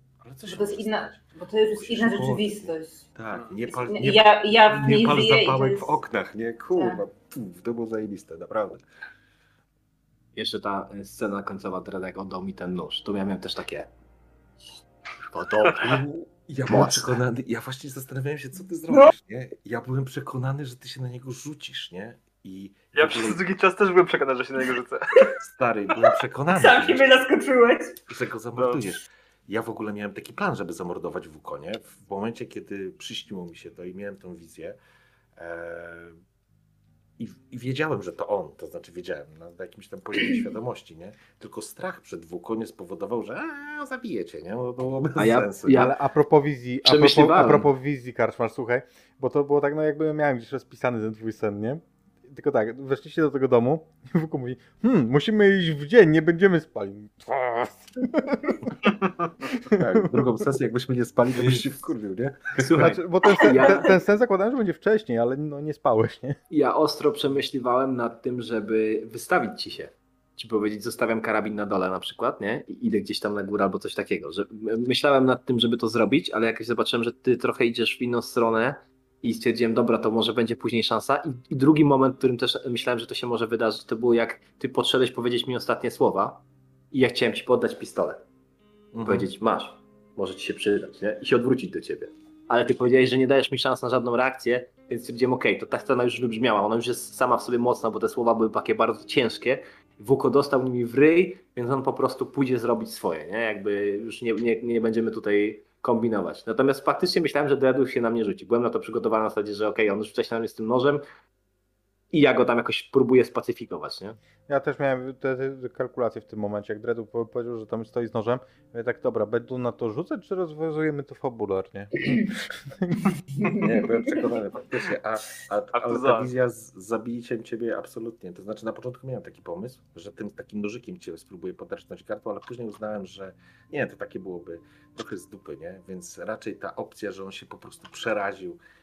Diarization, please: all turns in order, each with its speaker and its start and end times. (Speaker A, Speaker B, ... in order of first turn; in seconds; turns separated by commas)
Speaker A: 0.2-8.8, Speaker B: 0.5-3.0, Speaker B: 3.7-5.9, Speaker B: 6.7-7.0, Speaker C: 10.3-13.9, Speaker C: 15.2-16.0, Speaker A: 15.8-23.4, Speaker C: 16.6-17.1, Speaker D: 22.9-25.3, Speaker A: 25.4-27.2, Speaker B: 26.5-28.0, Speaker A: 28.1-34.8, Speaker D: 28.6-28.9, Speaker A: 35.4-36.2, Speaker A: 37.2-45.8, Speaker C: 45.1-45.9, Speaker E: 45.7-58.7, Speaker C: 46.8-47.7, Speaker E: 59.5-60.4, Speaker A: 59.6-63.0, Speaker C: 62.6-64.0, Speaker E: 62.7-66.4, Speaker C: 66.5-88.2, Speaker A: 88.9-89.3, Speaker C: 89.0-111.0, Speaker C: 112.1-114.2, Speaker E: 114.5-123.1, Speaker A: 123.5-138.6, Speaker D: 125.7-126.3